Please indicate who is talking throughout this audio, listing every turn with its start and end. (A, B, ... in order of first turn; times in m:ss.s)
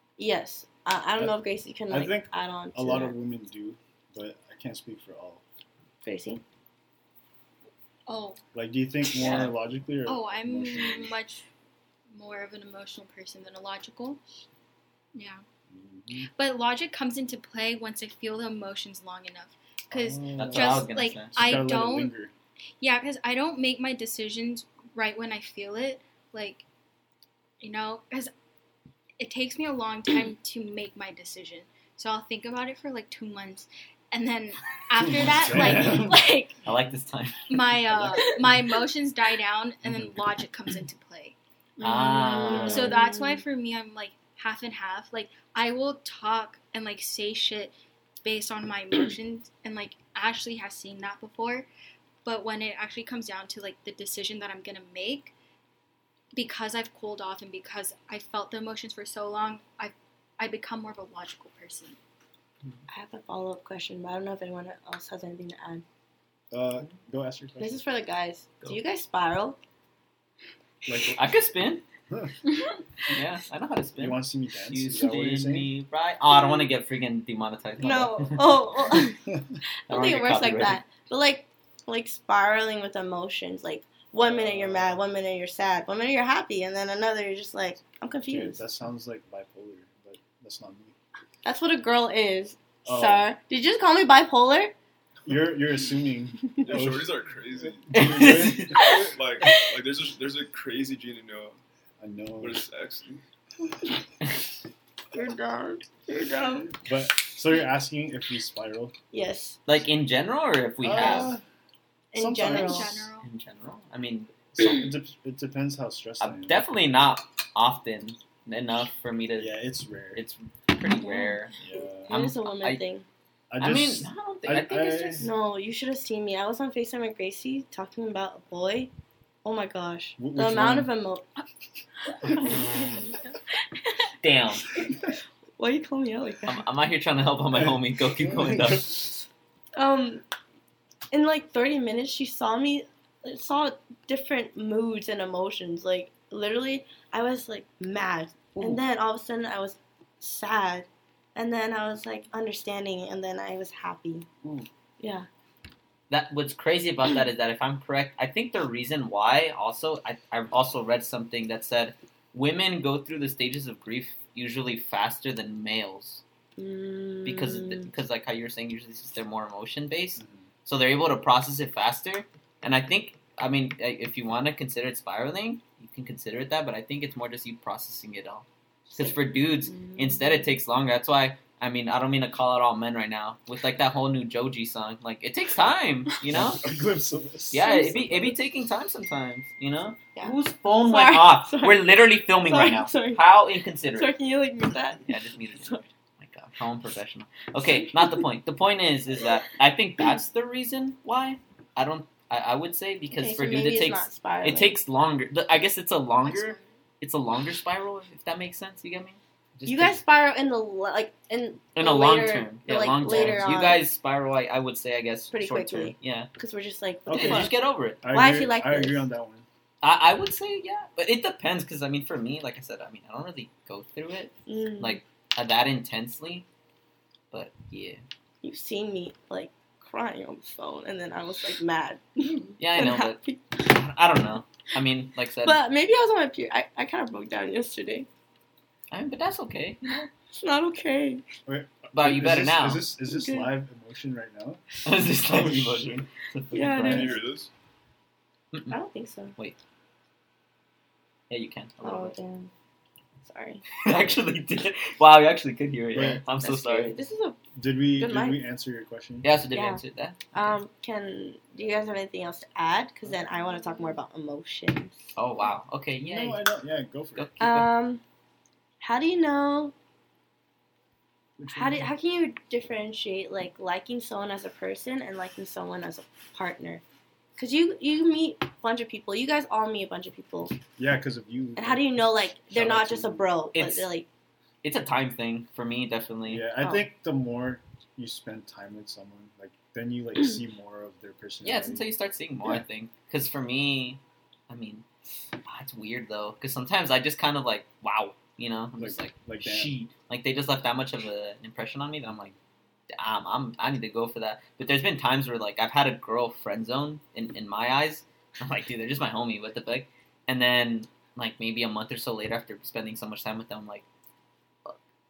0:00.2-0:03.2 A
0:01.9-0:05.4 B
0:06.0-0:06.4 A
0:08.1-0:08.4 C
0:08.5-0:11.2 B
0:09.2-0:09.5 D
0:10.1-0:11.4 C
0:12.1-0:14.2 C
0:15.2-0:15.4 C
0:15.7-0:16.3 B
0:16.4-0:22.1 C
0:19.9-0:22.3 B
0:20.4-0:21.4 D
0:22.8-0:26.6 C
0:27.6-0:28.3 C
0:29.2-0:36.6 C
0:35.0-0:36.3 B
0:35.5-0:35.9 D
0:36.6-0:38.2 D
0:37.5-0:41.4 C
0:39.8-0:40.1 B
0:41.8-0:43.4 A
0:41.8-0:42.9 D
0:42.3-0:51.7 C
0:52.2-0:55.3 C
0:56.3-1:02.0 C
1:02.9-1:05.8 A
1:06.5-1:07.8 B
1:07.6-1:09.6 A
1:10.9-1:11.2 B
1:11.2-1:11.8 D
1:13.1-1:18.4 D
1:14.0-1:15.7 B
1:16.3-1:16.7 A
1:17.8-1:19.2 A
1:19.3-1:19.6 B
1:19.9-1:28.6 A
1:19.9-1:20.8 D
1:24.2-1:25.0 B
1:28.3-1:31.0 B
1:31.4-1:34.7 A
1:32.8-1:33.3 B
1:35.3-1:39.0 B
1:36.6-1:41.6 E
1:37.9-1:38.8 D
1:38.8-1:39.5 A
1:42.0-1:42.6 B
1:42.4-1:43.2 E
1:45.2-1:46.7 A
1:46.8-1:49.0 B
1:49.1-1:49.6 A
1:49.7-1:51.4 D
1:50.8-1:51.4 B
1:52.1-1:53.0 A
1:52.1-1:53.1 B
1:52.4-1:53.3 C
1:53.2-1:54.8 D
1:54.6-1:56.7 B
1:56.2-1:59.6 D
1:59.4-2:00.2 B
2:00.1-2:01.5 D
2:00.9-2:01.4 A
2:01.6-2:02.1 B
2:02.1-2:03.0 A
2:02.1-2:02.8 D
2:03.5-2:05.3 B
2:03.6-2:05.3 D
2:05.2-2:08.9 A
2:09.4-2:11.3 A
2:10.2-2:10.9 B
2:12.3-2:13.2 A
2:12.4-2:13.1 D
2:14.2-2:14.7 D
2:15.6-2:16.6 A
2:16.5-2:19.1 D
2:17.5-2:18.9 B
2:19.8-2:20.2 A
2:21.1-2:34.3 A
2:35.0-2:35.3 A
2:36.1-2:46.2 D
2:46.6-2:47.9 A
2:47.2-3:06.6 D
2:50.2-2:50.5 B
2:59.7-3:00.3 A
3:06.3-3:08.4 B
3:07.5-3:14.1 D
3:10.2-3:11.8 A
3:12.4-3:13.2 A
3:13.9-3:15.0 A
3:15.0-3:30.0 D
3:23.1-3:24.8 A
3:26.3-3:26.6 C
3:29.7-3:33.8 A
3:31.8-3:36.3 D
3:33.0-3:33.6 B
3:35.3-3:37.5 A
3:37.1-3:39.5 B
3:37.1-3:38.0 D
3:38.1-3:39.1 A
3:39.8-3:46.4 D
3:44.5-3:45.0 A
3:47.3-3:48.0 D
3:48.4-3:53.4 A
3:52.6-3:55.6 D
3:55.4-3:58.1 A
3:58.9-4:00.1 D
4:00.4-4:01.2 A
4:01.5-4:04.6 B
4:01.9-4:02.9 D
4:03.1-4:03.5 A
4:04.8-4:07.2 D
4:05.2-4:06.0 B
4:06.5-4:07.2 A
4:06.9-4:07.5 E
4:06.9-4:07.2 B
4:08.7-4:09.4 A
4:11.3-4:12.1 D
4:11.8-4:12.5 A
4:13.2-4:13.6 A
4:13.8-4:16.9 D
4:15.9-4:16.2 B
4:16.4-4:17.4 A
4:17.6-4:19.3 B
4:18.0-4:18.4 A
4:19.2-4:20.6 D
4:19.5-4:25.0 A
4:25.2-4:26.4 D
4:26.0-4:27.4 B
4:27.2-4:27.7 D
4:27.4-4:28.0 A
4:28.8-4:29.7 A
4:31.4-4:31.9 B
4:31.5-4:36.8 A
4:37.4-4:40.6 A
4:40.8-4:43.3 B
4:41.6-4:44.1 A
4:43.6-4:43.9 D
4:44.6-4:46.4 D
4:46.3-4:51.9 B
4:51.4-4:54.8 D
4:55.5-5:02.4 D
4:58.8-4:59.8 B
5:02.9-5:13.8 D